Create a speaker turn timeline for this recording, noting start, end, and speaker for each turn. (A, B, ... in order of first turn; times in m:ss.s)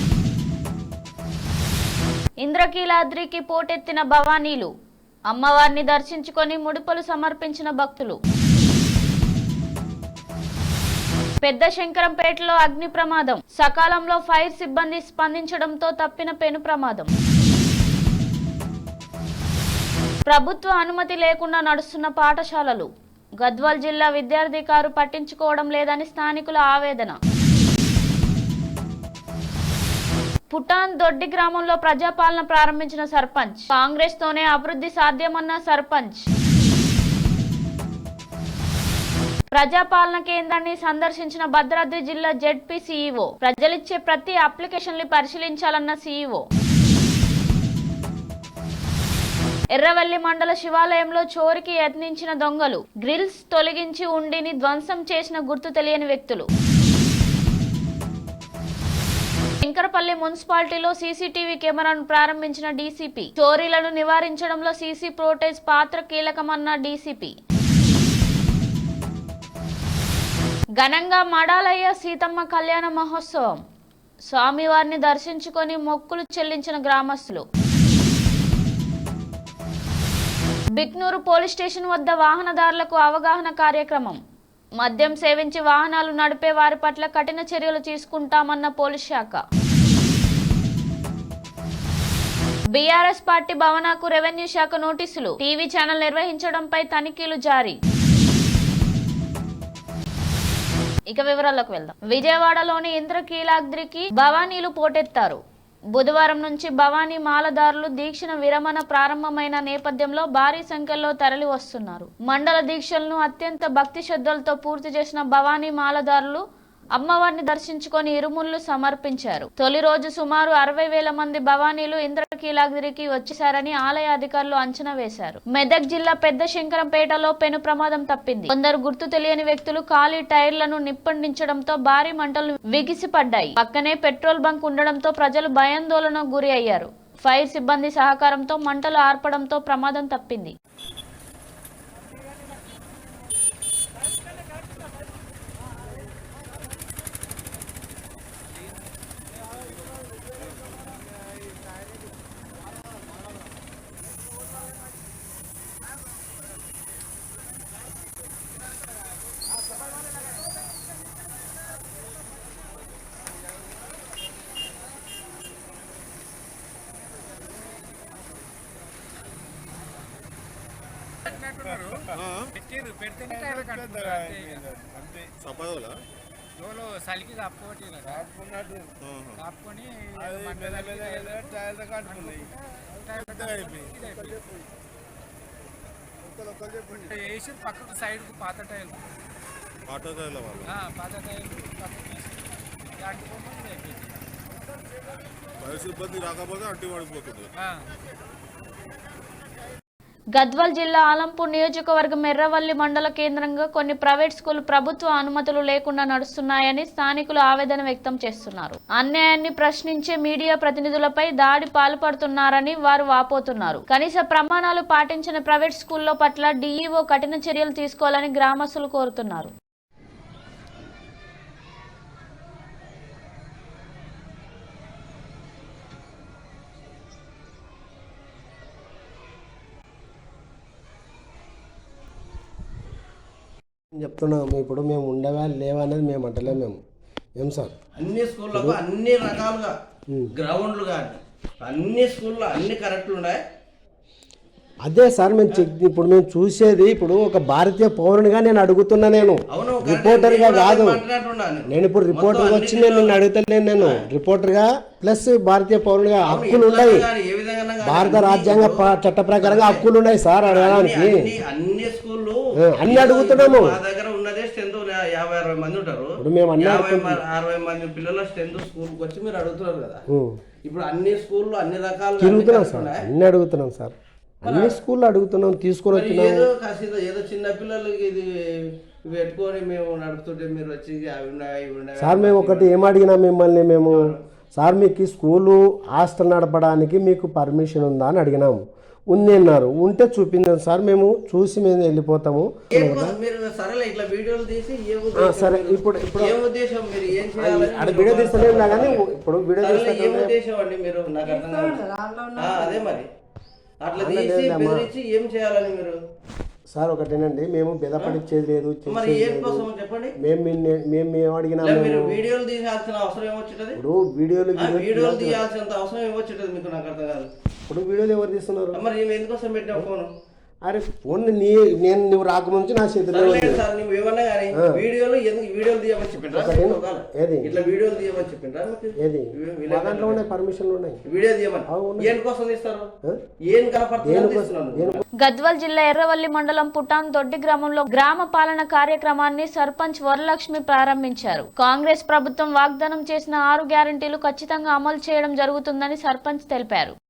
0:02.4-0:04.7 A
0:05.3-0:08.2 A
0:11.4-0:17.1 A
0:20.3-0:22.9 A
0:23.4-0:27.2 A
0:30.5-0:36.2 A
0:39.5-0:46.4 A
0:49.8-0:56.5 A
0:59.6-1:07.3 A
1:10.8-1:13.6 A
1:14.3-1:17.4 A
1:20.8-1:24.2 A
1:24.8-1:29.4 A
1:32.7-1:37.8 A
1:41.1-1:45.4 A
1:46.0-1:56.4 A
1:57.0-2:20.6 A
2:51.4-2:52.1 B
2:52.1-2:52.6 C
2:52.6-2:54.6 B
2:53.3-2:56.0 C
2:56.6-2:58.1 B
2:58.1-2:59.5 C
2:59.4-3:01.2 B
3:00.2-3:02.5 C
3:03.0-3:04.3 B
3:03.1-3:04.4 C
3:06.6-3:07.2 C
3:07.1-3:09.0 B
3:09.9-3:10.8 C
3:10.7-3:12.3 B
3:13.0-3:14.2 B
3:15.6-3:17.5 C
3:20.4-3:39.5 A
3:54.0-3:56.8 D
3:57.4-3:57.7 D
3:58.0-3:59.7 E
3:58.5-3:58.8 D
4:00.3-4:03.4 E
4:04.8-4:11.0 D
4:09.5-4:13.2 E
4:11.7-4:17.1 D
4:13.8-4:14.1 E
4:16.2-4:19.9 E
4:17.8-4:21.3 D
4:20.4-4:30.0 E
4:22.6-4:23.8 D
4:26.2-4:27.2 D
4:30.7-4:33.0 E
4:32.2-4:36.5 D
4:34.4-4:34.8 E
4:35.9-4:38.2 E
4:39.1-4:42.8 E
4:42.0-4:48.6 D
4:49.1-4:53.2 D
4:52.7-4:59.0 E
4:55.2-4:56.4 D
4:57.2-5:00.4 D
4:59.6-5:03.1 E
5:03.8-5:06.0 E
5:04.0-5:04.9 D
5:06.7-5:09.7 D
5:08.9-5:10.1 E
5:10.2-5:12.2 D
5:11.6-5:13.8 E
5:13.8-5:15.4 D
5:14.6-5:17.3 E
5:17.7-5:18.8 D
5:18.7-5:20.1 E
5:20.6-5:23.6 D
5:23.1-5:30.2 E
5:26.3-5:27.6 D
5:29.0-5:31.0 D
5:31.1-5:32.9 E
5:31.7-5:32.2 D
5:33.5-5:35.0 E
5:34.0-5:35.0 D
5:35.2-5:47.0 A